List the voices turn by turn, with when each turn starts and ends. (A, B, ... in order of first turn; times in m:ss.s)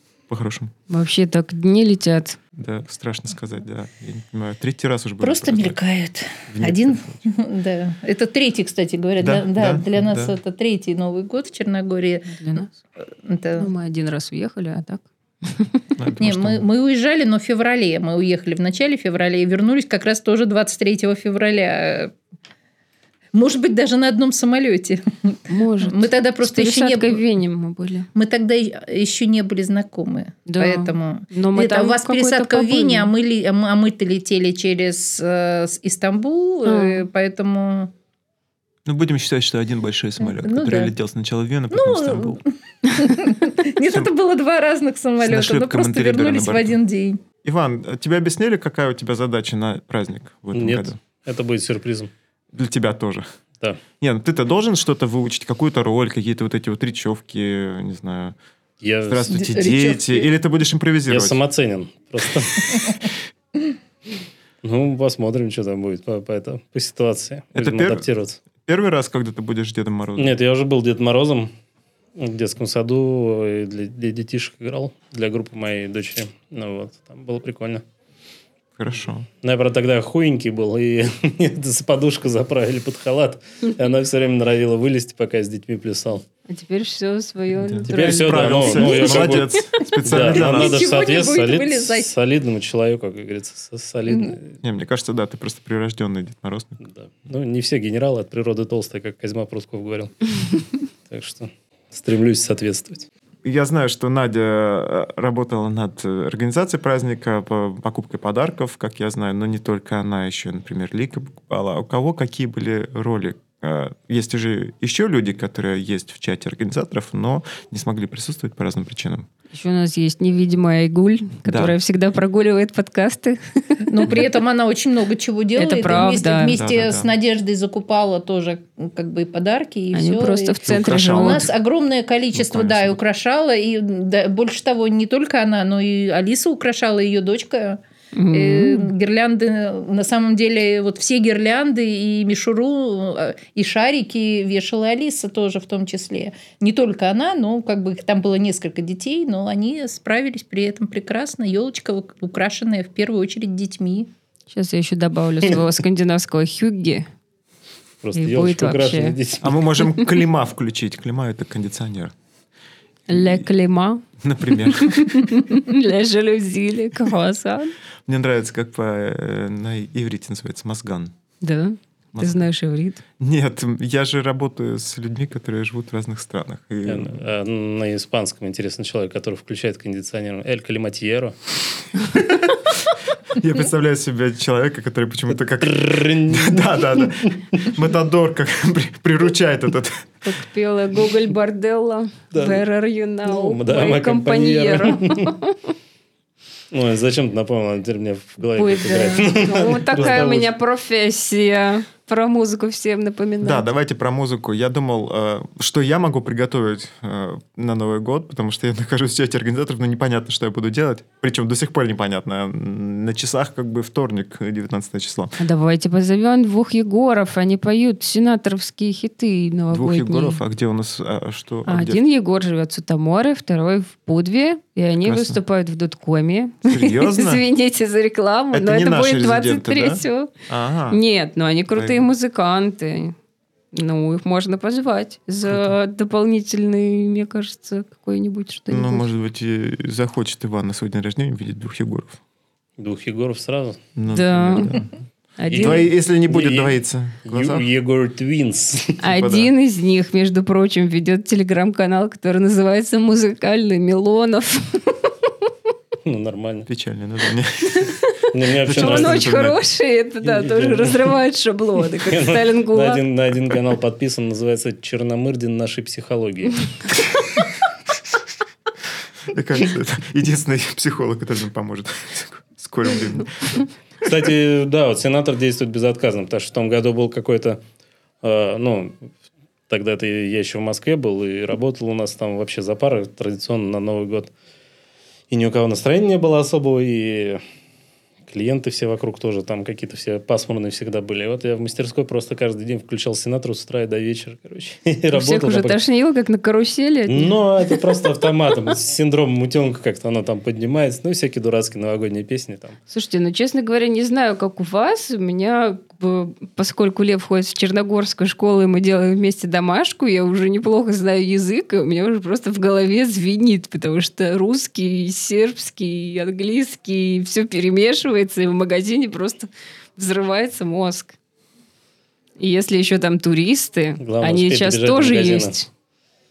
0:00.3-0:00.7 A
0:00.9-0:02.4 B
0:02.6-0:05.8 A
0:05.2-0:13.7 C
0:06.5-0:07.2 A
0:09.2-0:10.4 A
0:12.3-0:12.7 B
0:13.6-0:15.8 B
0:16.0-0:16.6 A
0:16.2-0:22.1 C
0:23.3-0:27.2 C
0:25.5-0:28.1 B
0:28.1-0:37.9 C
0:30.5-0:33.1 B
0:36.6-0:37.1 B
0:38.8-0:42.4 A
0:40.2-0:40.9 C
0:41.7-0:47.2 C
0:43.8-0:44.1 A
0:45.2-0:46.8 A
0:47.4-0:51.0 A
0:50.5-0:52.1 D
0:52.5-0:53.2 A
0:54.0-0:58.3 A
0:58.8-0:59.4 D
0:59.0-1:01.4 A
0:59.3-1:00.3 C
1:01.1-1:03.0 D
1:04.6-1:08.4 D
1:07.5-1:08.0 A
1:08.6-1:10.4 A
1:10.2-1:11.5 D
1:12.2-1:17.8 D
1:18.8-1:19.3 A
1:19.4-1:26.2 D
1:26.5-1:29.5 B
1:27.5-1:30.8 A
1:27.8-1:34.5 D
1:30.2-1:32.1 C
1:34.1-1:34.4 C
1:34.6-1:36.8 A
1:36.8-1:40.1 D
1:41.1-1:43.1 D
1:43.4-1:59.3 A
1:59.5-2:04.2 B
2:01.4-2:01.8 A
2:03.9-2:17.8 C
2:05.6-2:06.6 B
2:06.5-2:07.1 A
2:09.9-2:11.5 B
2:10.6-2:11.5 A
2:12.3-2:13.0 A
2:18.1-2:18.9 B
2:18.3-2:34.1 C
2:34.5-2:37.0 B
2:38.0-2:39.6 D
2:38.1-2:39.2 B
2:39.4-2:42.1 A
2:43.1-2:47.7 B
2:43.1-2:43.4 A
2:44.2-2:45.4 A
2:48.0-2:51.1 A
2:51.4-2:53.0 B
2:52.1-2:52.5 A
2:53.2-2:57.2 A
2:56.8-3:01.4 D
3:02.1-3:02.4 A
3:03.3-3:10.1 A
3:05.5-3:07.7 D
3:10.2-3:15.7 B
3:12.3-3:12.6 D
3:13.2-3:15.3 D
3:16.7-3:20.5 D
3:18.6-3:23.6 B
3:20.0-3:20.4 A
3:23.4-3:35.4 A
3:35.4-3:40.4 B
3:39.7-3:42.0 A
3:41.7-3:50.3 B
3:45.0-3:45.4 A
3:46.6-3:47.4 A
3:48.5-3:51.0 A
3:50.9-3:53.1 B
3:51.7-3:52.0 A
3:53.7-3:59.1 B
3:55.4-3:55.7 A
3:58.7-4:02.2 A
4:02.8-4:03.8 D
4:04.0-4:04.9 A
4:04.1-4:04.8 B
4:05.4-4:05.9 B
4:05.5-4:09.0 D
4:05.5-4:07.7 A
4:09.0-4:15.3 B
4:09.0-4:09.5 A
4:16.0-4:16.7 D
4:16.7-4:18.0 A
4:17.8-4:18.0 B
4:18.3-4:19.3 D
4:18.6-4:19.6 A
4:18.7-4:23.0 B
4:20.2-4:21.1 D
4:22.0-4:26.6 D
4:29.3-4:33.6 A
4:34.0-4:37.6 D
4:38.2-4:39.1 D
4:39.7-4:44.3 D
4:45.3-4:47.4 D
4:48.3-4:55.8 D
4:55.1-4:57.8 B
4:57.1-5:02.8 D
5:02.9-5:21.1 B
5:22.4-5:25.7 B
5:24.0-5:25.6 D